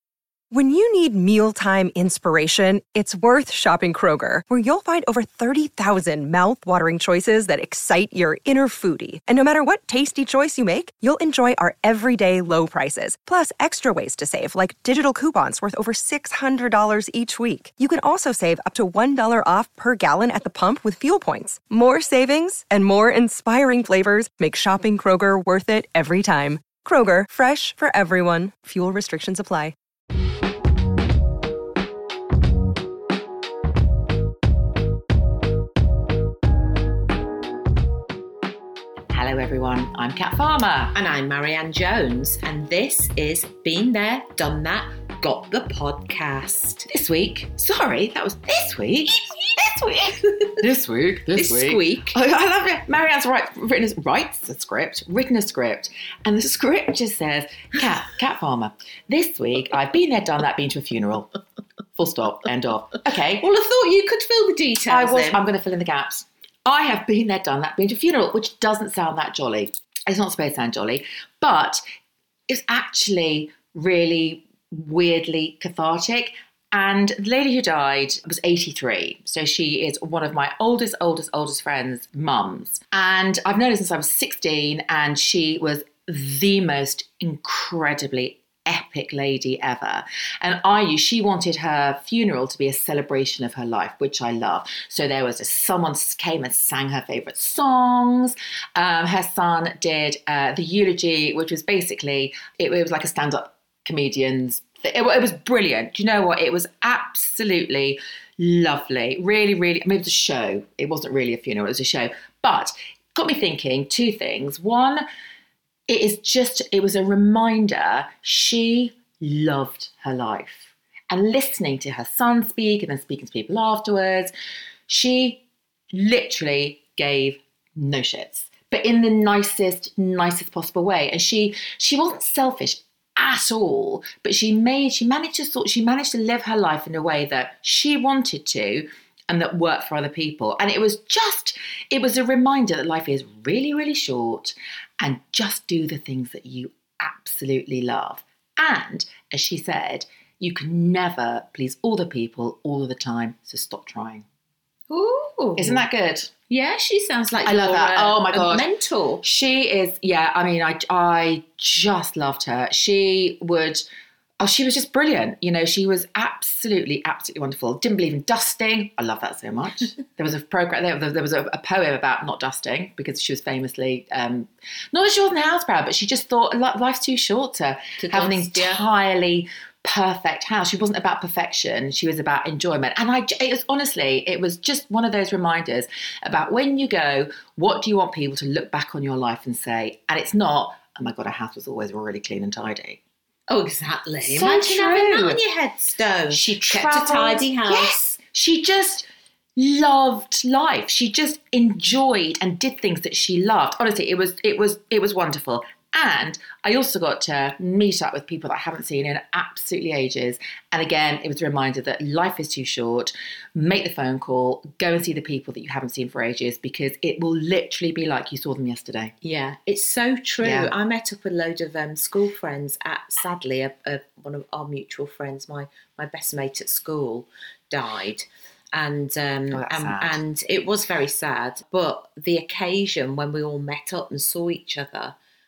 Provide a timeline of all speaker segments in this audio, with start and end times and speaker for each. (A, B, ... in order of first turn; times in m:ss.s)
0:00.5-0:29.7 A
0:39.1-0:40.9 B
0:40.9-0:46.9 C
0:46.9-1:01.3 B
0:49.2-0:49.6 C
0:50.2-0:50.6 C
0:51.3-0:52.2 C
1:02.0-1:03.4 B
1:03.4-1:05.4 C
1:04.9-1:11.8 B
1:12.5-1:55.0 B
1:55.9-2:04.3 B
2:04.9-2:34.2 B
2:34.9-2:35.8 C
2:35.6-2:36.3 B
2:36.5-2:39.2 C
2:37.4-2:38.6 B
2:39.2-2:43.8 B
2:44.4-3:13.0 B
2:58.0-2:58.8 C
3:13.5-3:18.0 C
3:14.2-3:15.4 B
3:16.3-3:39.1 B
3:39.2-3:55.2 C
3:40.4-3:40.7 B
3:49.5-3:50.2 B